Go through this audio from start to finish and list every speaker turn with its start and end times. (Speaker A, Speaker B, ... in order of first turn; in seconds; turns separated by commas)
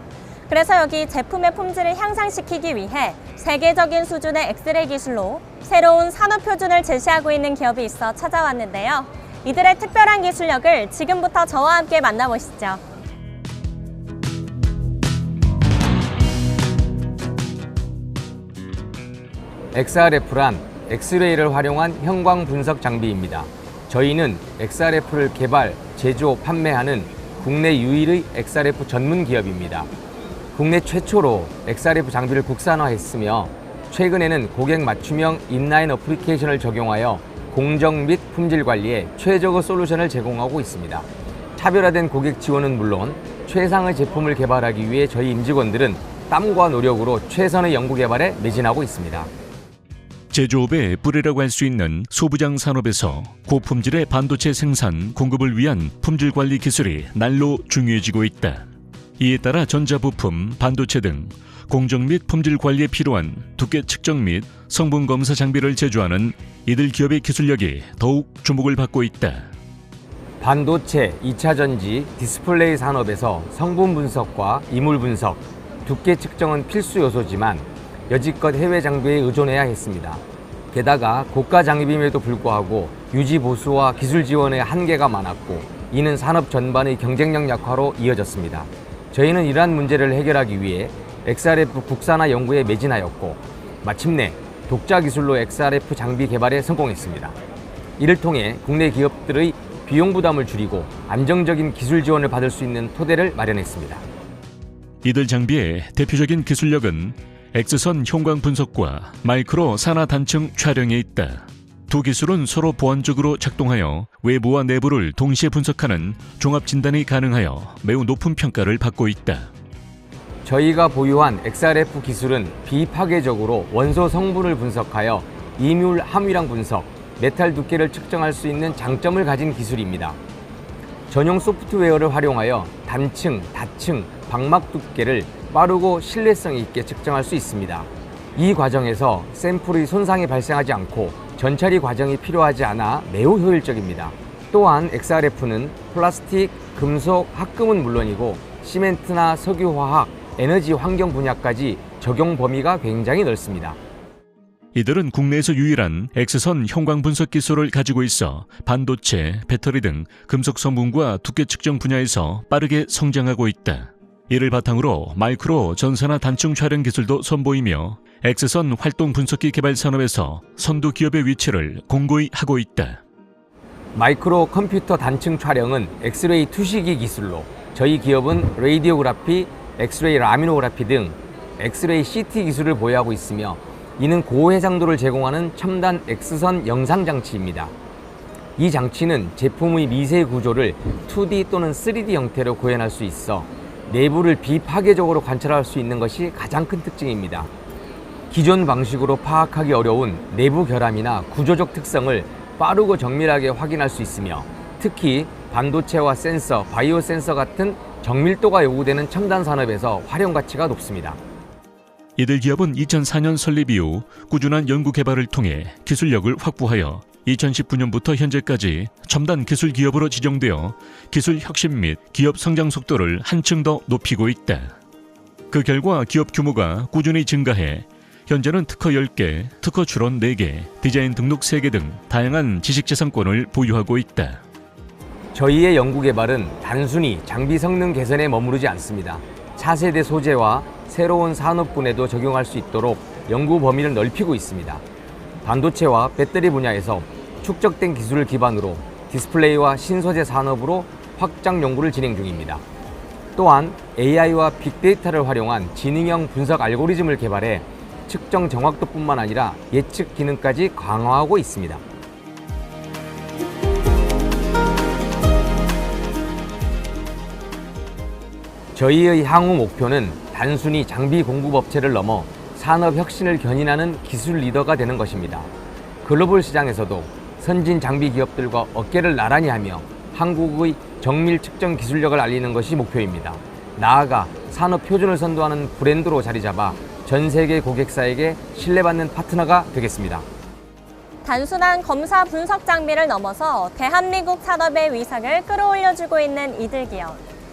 Speaker A: 0.5-12.8, Speaker B: 19.7-29.9, Speaker B: 30.5-49.3, Speaker C: 50.3-58.6, Speaker C: 59.2-69.5, Speaker B: 70.4-97.3, Speaker B: 98.0-104.0, Speaker C: 105.0-119.5, Speaker B: 120.4-130.2, Speaker B: 131.1-153.8, Speaker C: 154.7-173.0, Speaker B: 173.9-187.7, Speaker B: 188.6-197.5, Speaker B: 198.3-211.2, Speaker C: 212.2-224.7, Speaker C: 225.5-234.4, Speaker B: 235.3-244.8, Speaker B: 245.4-252.6, Speaker B: 253.3-261.8, Speaker B: 268.7-275.5, Speaker B: 276.0-290.2, Speaker A: 291.2-297.2